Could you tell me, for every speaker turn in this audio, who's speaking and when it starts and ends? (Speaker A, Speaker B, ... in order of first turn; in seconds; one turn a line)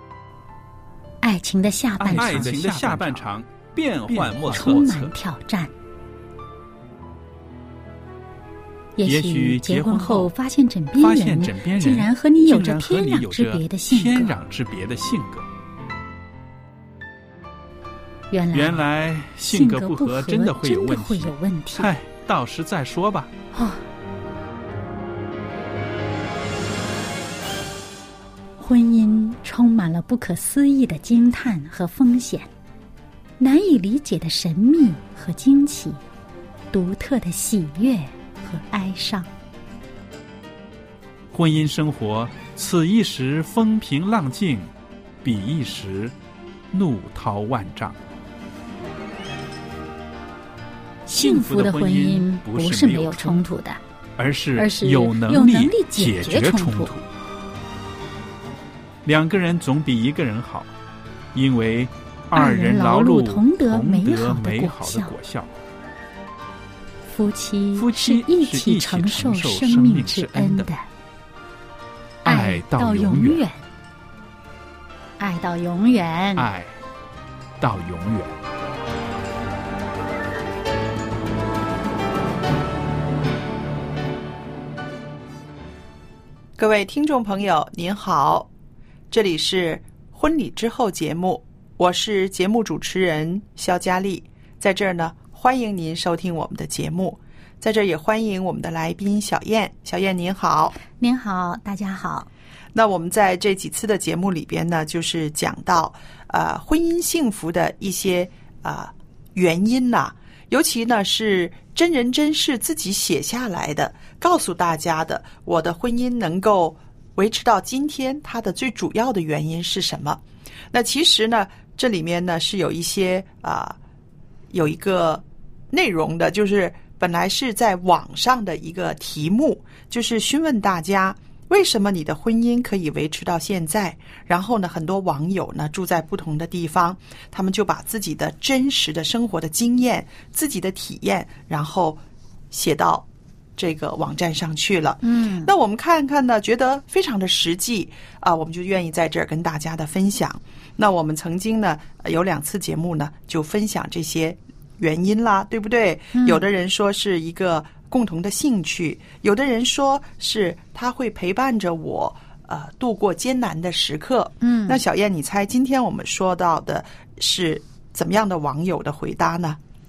Speaker A: 1.2-3.2
Speaker B: 2.0-5.1
Speaker A: 4.4-5.7
Speaker A: 9.0-14.3
Speaker B: 9.1-10.3
Speaker B: 10.9-15.5
Speaker A: 18.3-18.8
Speaker B: 18.5-23.3
Speaker A: 19.5-21.9
Speaker A: 23.5-23.8
Speaker A: 28.6-32.5
Speaker A: 33.4-36.0
Speaker A: 36.7-39.3
Speaker B: 41.3-44.7
Speaker B: 45.2-46.1
Speaker B: 46.7-48.0
Speaker A: 51.1-53.8
Speaker B: 51.1-53.4
Speaker B: 54.2-57.0
Speaker A: 54.6-56.9
Speaker B: 59.0-60.7
Speaker B: 61.3-65.5
Speaker A: 62.3-65.2
Speaker A: 67.0-70.8
Speaker B: 67.8-70.7
Speaker B: 72.2-73.4
Speaker A: 72.2-73.6
Speaker A: 75.2-76.5
Speaker B: 76.4-76.8
Speaker B: 77.6-78.4
Speaker C: 86.6-88.5
Speaker C: 89.1-100.8
Speaker A: 100.8-102.3
Speaker C: 102.7-123.8
Speaker C: 124.5-142.0
Speaker C: 142.5-169.6
Speaker A: 145.0-145.5
Speaker A: 156.1-156.4
Speaker A: 164.4-164.8